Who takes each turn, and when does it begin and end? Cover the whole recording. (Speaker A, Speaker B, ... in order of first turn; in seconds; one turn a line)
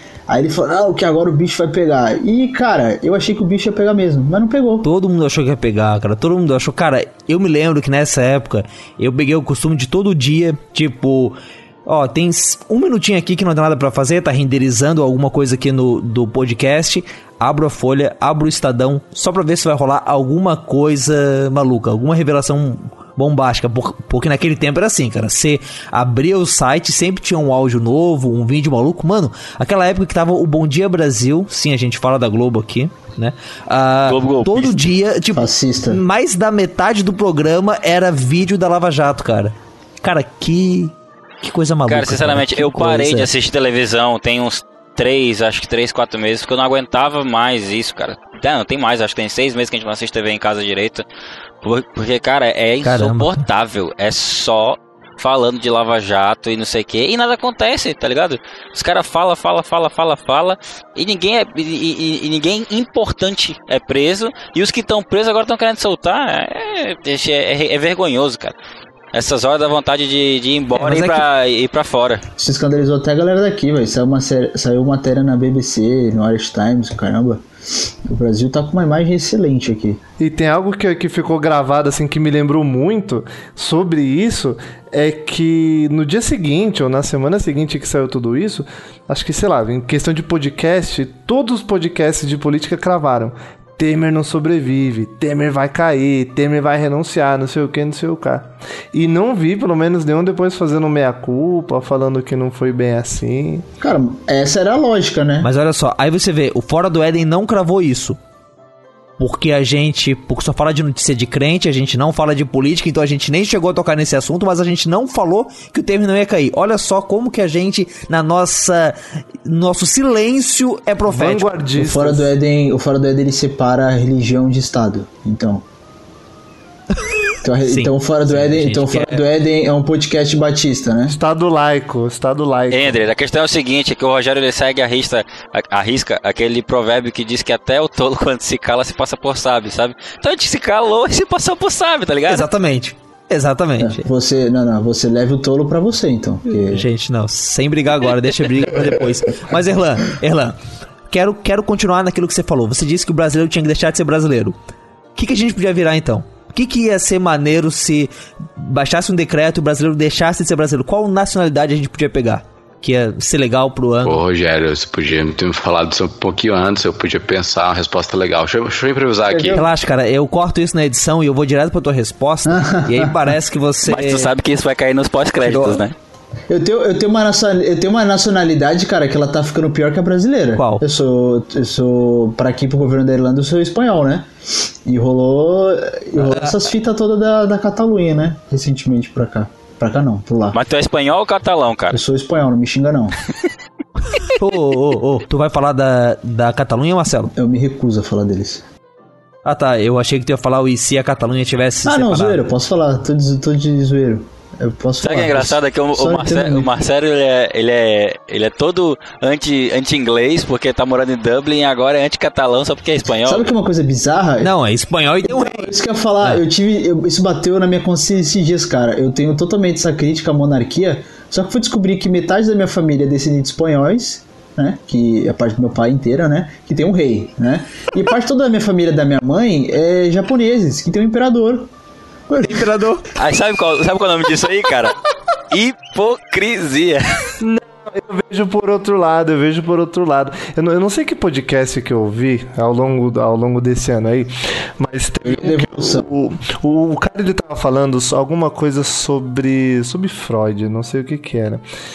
Speaker A: 0.3-4.9
Speaker B: 4.8-43.3
Speaker C: 34.1-34.8
Speaker A: 35.4-36.0
Speaker C: 41.9-51.0
Speaker C: 51.6-68.5
Speaker B: 52.8-53.4
Speaker C: 69.1-72.2
Speaker B: 70.8-71.2
Speaker A: 72.4-80.0
Speaker D: 80.2-103.7
Speaker A: 103.8-105.5
Speaker B: 105.4-108.2
Speaker B: 109.2-121.5
Speaker D: 121.1-122.3
Speaker A: 121.8-125.7
Speaker A: 127.4-131.2
Speaker B: 127.7-129.2
Speaker D: 131.1-133.0
Speaker C: 132.7-142.5
Speaker B: 142.3-144.0
Speaker A: 143.8-146.9
Speaker B: 146.7-150.6
Speaker B: 151.1-154.6
Speaker B: 155.2-164.2
Speaker E: 164.0-169.6
Speaker B: 169.5-174.3
Speaker A: 172.5-173.2
Speaker C: 173.9-175.9
Speaker B: 175.4-175.8
Speaker A: 176.5-184.3
Speaker B: 180.6-180.8
Speaker A: 184.9-190.6
Speaker B: 186.2-186.6
Speaker C: 190.5-192.0
Speaker A: 191.9-193.2
Speaker B: 194.2-197.3
Speaker A: 197.4-198.6
Speaker B: 199.4-202.4
Speaker A: 201.8-206.7
Speaker C: 205.0-213.5
Speaker A: 213.2-214.5
Speaker B: 214.4-216.4
Speaker A: 215.2-231.7
Speaker A: 232.3-232.7
Speaker B: 232.4-233.0
Speaker C: 233.2-235.0
Speaker C: 235.5-237.0
Speaker D: 237.4-251.6
Speaker A: 245.2-246.1